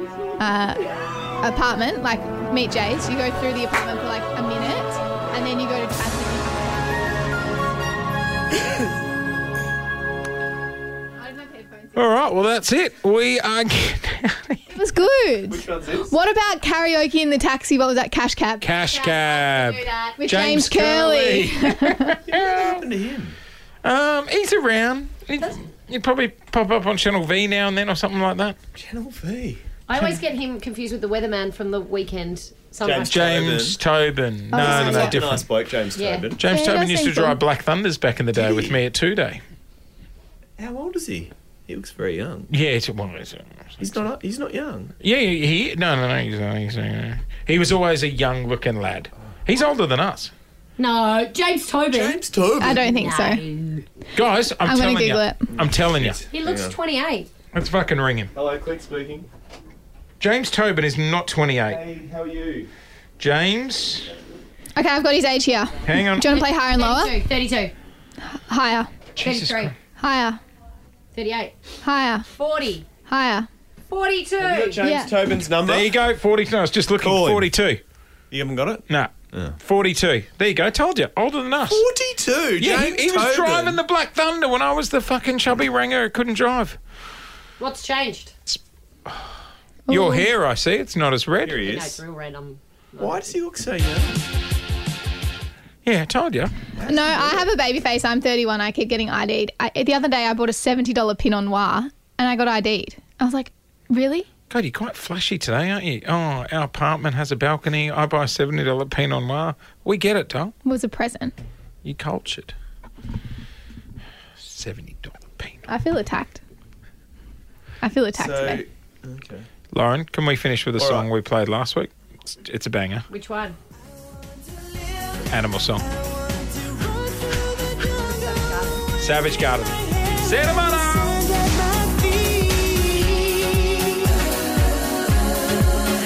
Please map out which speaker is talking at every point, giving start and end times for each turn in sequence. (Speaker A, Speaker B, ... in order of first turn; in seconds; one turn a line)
Speaker A: 0.4-7.0
Speaker A: 11.2-12.1
Speaker B: 11.9-14.6
Speaker A: 14.7-18.7
Speaker C: 15.5-16.1
Speaker B: 18.6-22.8
Speaker D: 18.8-20.2
Speaker A: 20.2-22.2
Speaker C: 22.3-23.4
Speaker B: 23.8-28.6
Speaker C: 28.7-29.6
Speaker D: 29.9-33.3
Speaker C: 32.8-33.8
Speaker B: 33.1-35.5
Speaker A: 34.5-35.1
Speaker C: 34.5-36.4
Speaker D: 36.0-36.3
Speaker B: 36.4-39.4
Speaker A: 36.5-37.4
Speaker C: 38.3-38.8
Speaker C: 40.6-42.5
Speaker B: 42.5-43.9
Speaker C: 43.8-44.9
Speaker B: 45.0-50.3
Speaker D: 50.8-52.2
Speaker C: 51.9-53.1
Speaker A: 52.6-53.4
Speaker D: 52.9-53.8
Speaker B: 54.1-56.2
Speaker A: 54.6-55.5
Speaker C: 55.5-56.8
Speaker D: 56.3-57.3
Speaker B: 57.5-58.3
Speaker C: 58.3-59.3
Speaker B: 60.2-61.8
Speaker C: 61.7-62.7
Speaker B: 63.2-64.1
Speaker A: 64.7-67.1
Speaker B: 65.8-66.3
Speaker D: 66.3-67.7
Speaker A: 68.3-68.9
Speaker D: 69.2-69.7
Speaker B: 69.2-69.7
Speaker A: 70.0-70.4
Speaker D: 71.1-71.5
Speaker A: 71.8-72.3
Speaker D: 72.3-72.8
Speaker A: 73.1-73.5
Speaker D: 73.9-74.8
Speaker C: 74.4-75.9
Speaker A: 74.8-75.1
Speaker B: 75.6-77.8
Speaker C: 77.0-77.5
Speaker C: 78.3-79.6
Speaker B: 78.9-81.8
Speaker C: 81.6-83.8
Speaker B: 82.6-86.8
Speaker D: 87.6-88.3
Speaker B: 88.5-89.3
Speaker A: 89.9-90.3
Speaker B: 89.9-91.6
Speaker C: 91.4-92.0
Speaker D: 91.6-93.3
Speaker C: 93.0-94.2
Speaker B: 95.8-96.5
Speaker C: 96.8-97.5
Speaker A: 96.8-104.3
Speaker B: 104.5-110.5
Speaker A: 110.6-111.3
Speaker B: 111.8-112.5
Speaker B: 114.4-115.7
Speaker A: 115.7-116.4
Speaker A: 117.8-118.6
Speaker C: 118.1-119.5
Speaker B: 119.7-123.0
Speaker C: 120.8-121.1
Speaker D: 123.1-123.6
Speaker B: 125.3-125.9
Speaker D: 127.8-128.8
Speaker B: 129.0-131.4